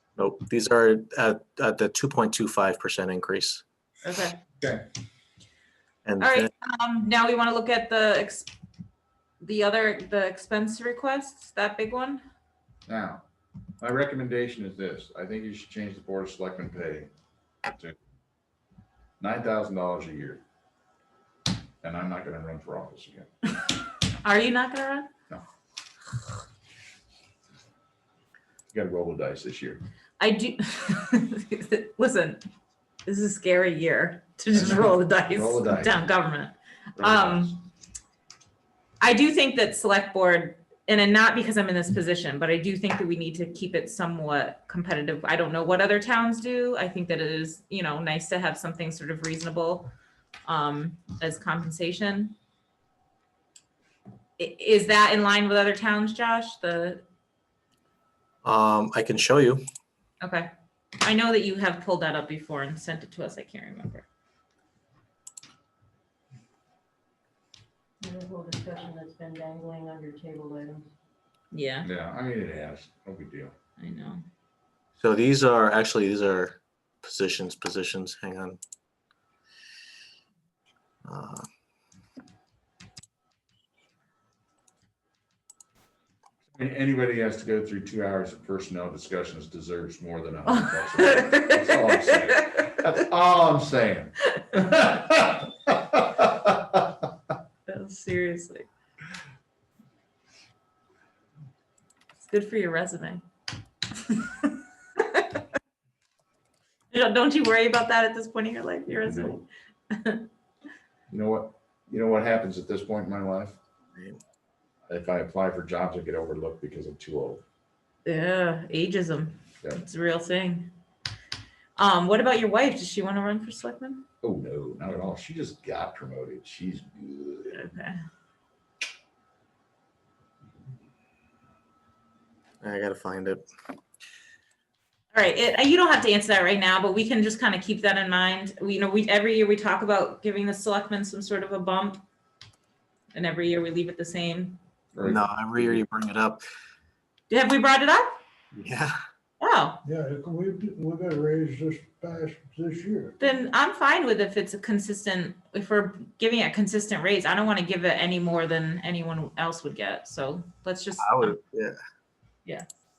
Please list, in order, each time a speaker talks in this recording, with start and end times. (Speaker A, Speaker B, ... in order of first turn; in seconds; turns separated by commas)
Speaker A: 0.2-3.6, Speaker B: 4.0-4.4, Speaker A: 6.0-6.5, Speaker B: 6.2-8.5, Speaker B: 9.4-12.2, Speaker C: 12.9-13.2, Speaker C: 13.8-17.1, Speaker C: 19.2-20.4, Speaker C: 21.8-23.3, Speaker B: 24.2-25.1, Speaker C: 28.7-29.8, Speaker B: 30.2-32.4, Speaker B: 33.0-37.5, Speaker C: 34.5-36.0, Speaker C: 37.0-37.6, Speaker B: 39.0-49.9, Speaker B: 50.5-52.3, Speaker B: 54.4-57.0, Speaker A: 58.4-59.6, Speaker B: 60.2-60.5, Speaker B: 61.0-64.0, Speaker D: 68.0-70.9, Speaker B: 71.5-71.9, Speaker C: 71.8-73.5, Speaker B: 73.8-74.2, Speaker A: 75.0-78.6, Speaker A: 81.0-81.5, Speaker C: 86.5-97.0, Speaker B: 90.5-92.8, Speaker B: 97.7-98.7, Speaker B: 102.2-103.2, Speaker B: 104.0-105.4, Speaker B: 106.9-110.2, Speaker C: 109.0-109.4, Speaker C: 111.1-113.6, Speaker A: 113.9-114.2, Speaker C: 114.9-117.4, Speaker B: 118.0-120.7, Speaker B: 121.8-124.0, Speaker C: 124.2-127.7, Speaker B: 127.5-127.9, Speaker A: 132.6-133.4, Speaker B: 135.1-142.0, Speaker B: 143.1-144.6, Speaker C: 144.9-145.8, Speaker A: 145.0-146.4, Speaker B: 147.3-148.2, Speaker A: 148.5-148.9, Speaker B: 149.4-149.8, Speaker E: 149.8-153.1, Speaker B: 153.2-161.4, Speaker A: 161.0-161.8